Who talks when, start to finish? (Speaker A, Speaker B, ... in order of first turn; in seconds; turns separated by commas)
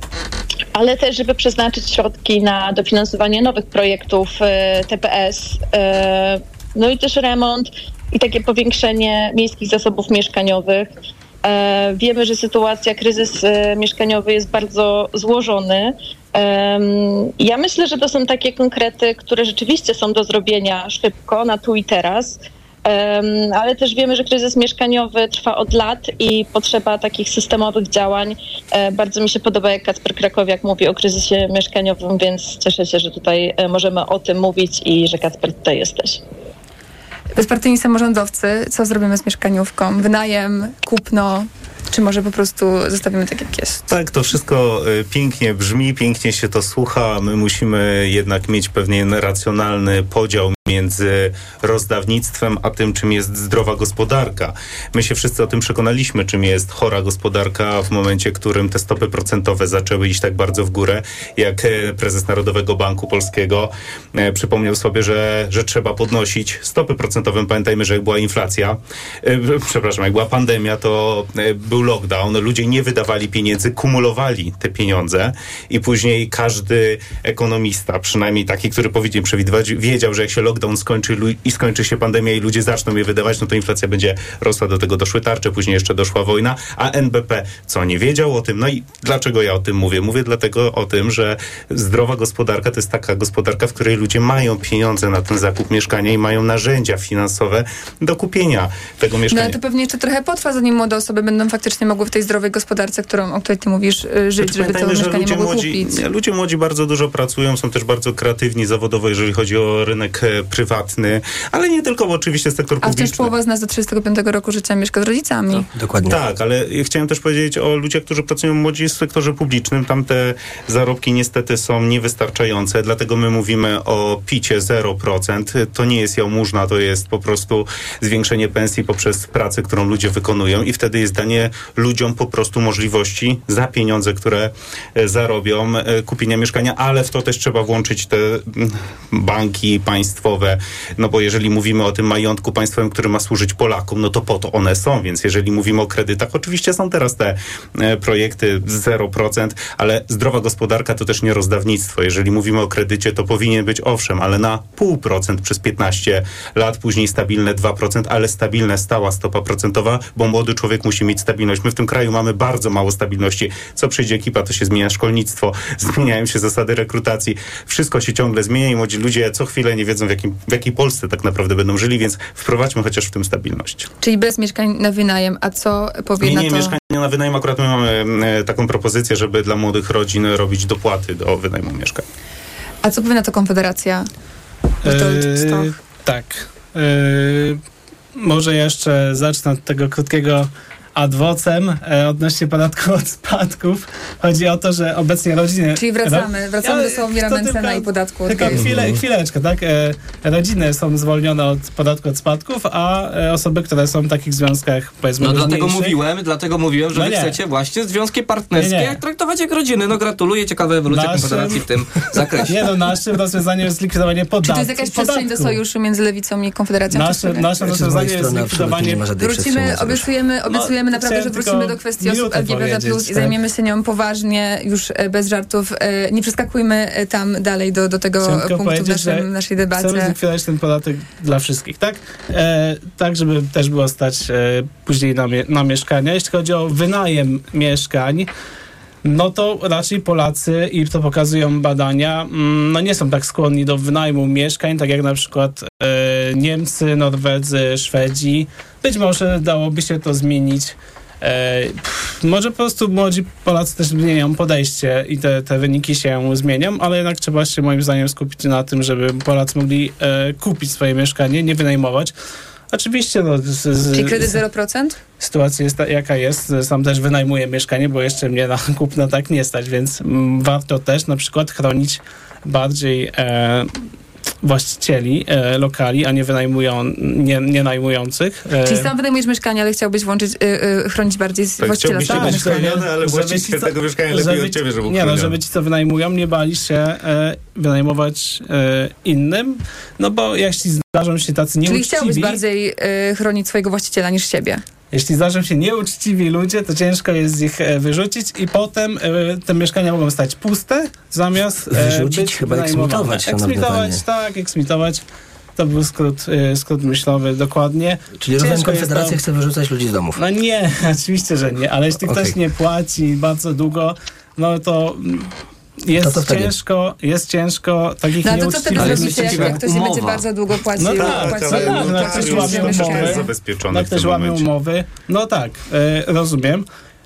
Speaker A: 0.7-10.9, Speaker A: 11.4-36.2, Speaker B: 37.4-43.8, Speaker C: 43.9-99.6, Speaker B: 99.3-106.0, Speaker C: 104.4-113.3, Speaker B: 112.8-115.7, Speaker D: 115.8-116.2, Speaker C: 116.0-173.9, Speaker B: 174.0-176.8, Speaker C: 176.2-182.0, Speaker B: 182.8-184.1, Speaker B: 184.8-185.7, Speaker E: 184.8-187.6, Speaker E: 188.2-205.9, Speaker B: 195.8-198.6, Speaker F: 205.2-212.7, Speaker E: 206.9-207.3, Speaker E: 208.6-209.0, Speaker E: 210.9-211.6, Speaker E: 212.4-215.6, Speaker B: 214.4-217.5, Speaker E: 216.9-219.0, Speaker D: 217.6-220.1, Speaker B: 219.2-230.1, Speaker E: 220.4-223.3, Speaker E: 228.2-238.3, Speaker E: 239.0-262.1, Speaker E: 262.7-264.4, Speaker B: 263.9-265.0, Speaker E: 265.2-273.7, Speaker E: 274.4-278.9, Speaker B: 278.6-282.8, Speaker C: 281.6-285.4, Speaker E: 282.0-292.4, Speaker B: 291.6-294.6, Speaker E: 294.9-305.0, Speaker D: 301.7-304.0, Speaker E: 305.6-309.2, Speaker D: 308.2-310.2, Speaker E: 310.2-315.3, Speaker D: 312.0-312.4, Speaker E: 315.8-319.6, Speaker D: 316.0-316.5, Speaker B: 318.2-323.3, Speaker F: 318.8-320.3, Speaker E: 320.8-326.6, Speaker C: 320.9-324.5